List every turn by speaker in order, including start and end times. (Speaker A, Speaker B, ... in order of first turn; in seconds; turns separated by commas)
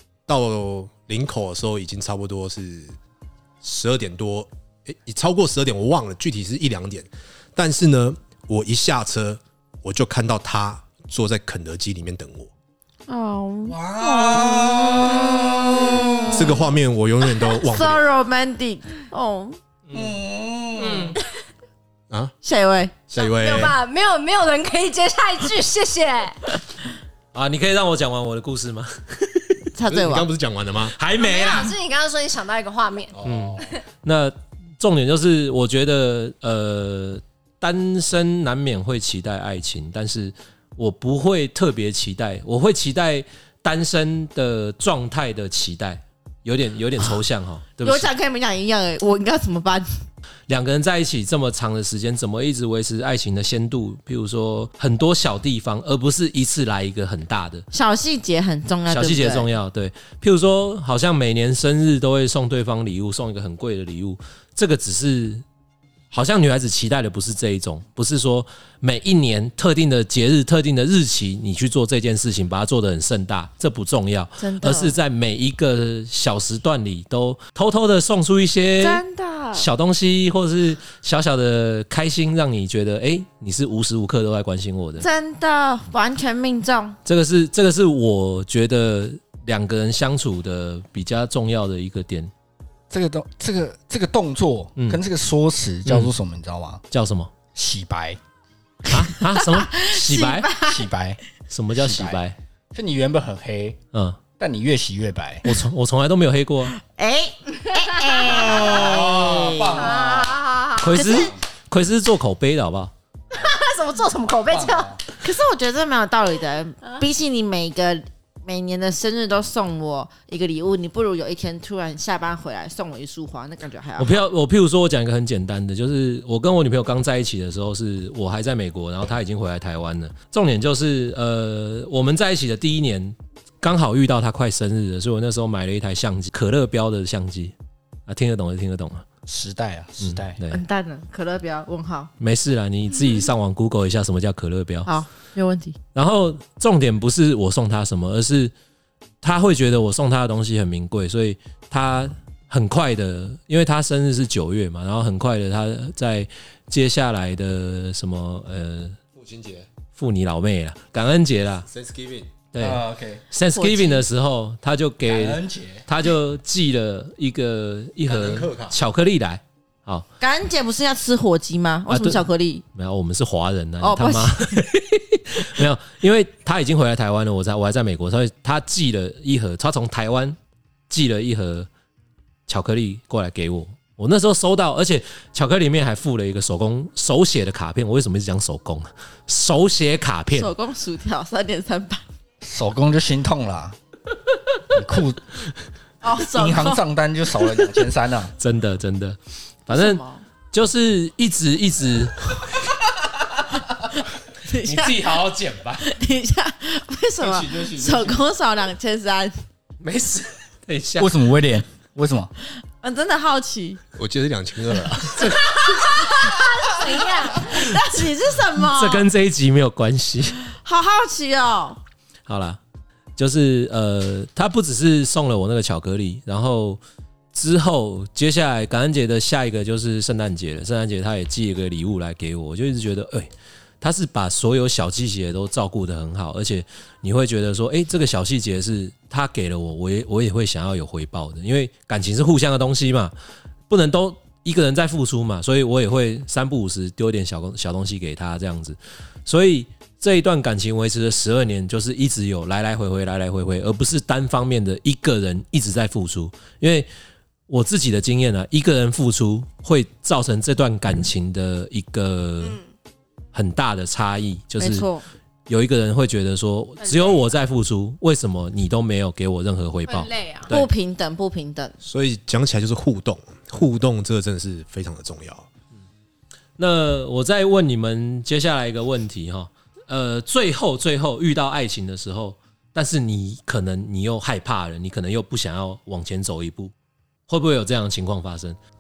Speaker A: 0.3-3.0, Speaker A: 3.6-12.5, Speaker B: 13.1-16.7, Speaker C: 13.7-16.3, Speaker A: 16.3-18.1, Speaker B: 17.3-19.6, Speaker D: 19.9-20.2, Speaker C: 19.9-21.2, Speaker D: 20.8-21.2, Speaker B: 22.4-23.0, Speaker A: 23.1-23.8, Speaker E: 23.2-26.6, Speaker D: 27.3-29.7, Speaker B: 29.7-30.3, Speaker A: 29.9-31.0, Speaker D: 31.0-31.7, Speaker E: 31.2-33.1, Speaker A: 33.2-33.6, Speaker D: 33.2-48.1, Speaker B: 47.8-50.0, Speaker D: 50.5-57.7, Speaker B: 57.7-59.5, Speaker D: 58.9-65.4, Speaker D: 66.1-79.0, Speaker B: 74.4-75.0, Speaker B: 78.8-79.7, Speaker D: 79.5-85.1, Speaker B: 85.0-87.0, Speaker D: 87.0-92.3, Speaker C: 92.9-96.8, Speaker D: 94.8-95.0, Speaker D: 95.9-96.1, Speaker D: 96.9-97.3, Speaker C: 97.5-98.2, Speaker D: 98.9-100.5, Speaker B: 99.3-100.9, Speaker C: 100.6-101.2, Speaker D: 101.5-102.4, Speaker C: 101.8-102.2, Speaker C: 102.7-103.8, Speaker D: 103.9-104.2, Speaker C: 104.4-105.5, Speaker D: 105.5-106.8, Speaker B: 106.8-109.9, Speaker E: 107.8-108.8, Speaker C: 108.5-110.4, Speaker E: 109.8-111.0, Speaker D: 110.8-112.9, Speaker B: 110.9-111.3, Speaker C: 111.1-111.4, Speaker E: 113.3-115.0, Speaker C: 114.5-115.0, Speaker B: 115.2-124.2, Speaker D: 124.0-137.6, Speaker D: 138.1-139.1, Speaker C: 139.3-140.4, Speaker D: 140.0-140.6, Speaker B: 140.5-142.1, Speaker D: 142.2-144.9, Speaker B: 144.9-145.8, Speaker D: 145.9-148.5, Speaker D: 149.2-159.0, Speaker A: 159.1-159.7, Speaker D: 159.9-161.7, Speaker A: 161.7-162.3, Speaker D: 162.5-170.1, Speaker C: 162.6-163.2, Speaker B: 163.5-164.1, Speaker C: 165.1-165.8, Speaker A: 168.1-168.8, Speaker B: 170.2-172.7, Speaker D: 171.9-180.4, Speaker B: 173.8-174.7, Speaker D: 180.9-181.7, Speaker D: 182.5-190.5, Speaker B: 190.3-192.0, Speaker C: 192.4-193.8, Speaker C: 194.7-195.2, Speaker B: 196.0-196.8, Speaker C: 196.2-198.3, Speaker D: 198.4-202.6, Speaker B: 199.7-200.2, Speaker B: 204.5-205.1, Speaker D: 204.5-205.9, Speaker B: 205.8-209.3, Speaker C: 207.2-208.1, Speaker D: 207.6-207.9, Speaker D: 209.8-211.1, Speaker C: 211.0-212.3, Speaker B: 212.8-213.8, Speaker A: 214.0-215.4, Speaker D: 215.2-215.9, Speaker B: 215.4-219.1, Speaker E: 216.2-217.6, Speaker D: 218.7-220.4, Speaker B: 220.5-221.8, Speaker D: 222.3-222.6, Speaker D: 223.2-226.8, Speaker D: 227.3-233.3, Speaker D: 233.8-243.1, Speaker D: 243.7-256.9, Speaker D: 257.5-262.6, Speaker D: 263.3-264.9, Speaker B: 264.6-265.1, Speaker D: 265.5-270.7, Speaker E: 266.8-267.2, Speaker E: 269.9-270.5, Speaker B: 270.5-271.8, Speaker A: 271.8-275.5, Speaker D: 276.6-286.7, Speaker D: 287.3-288.6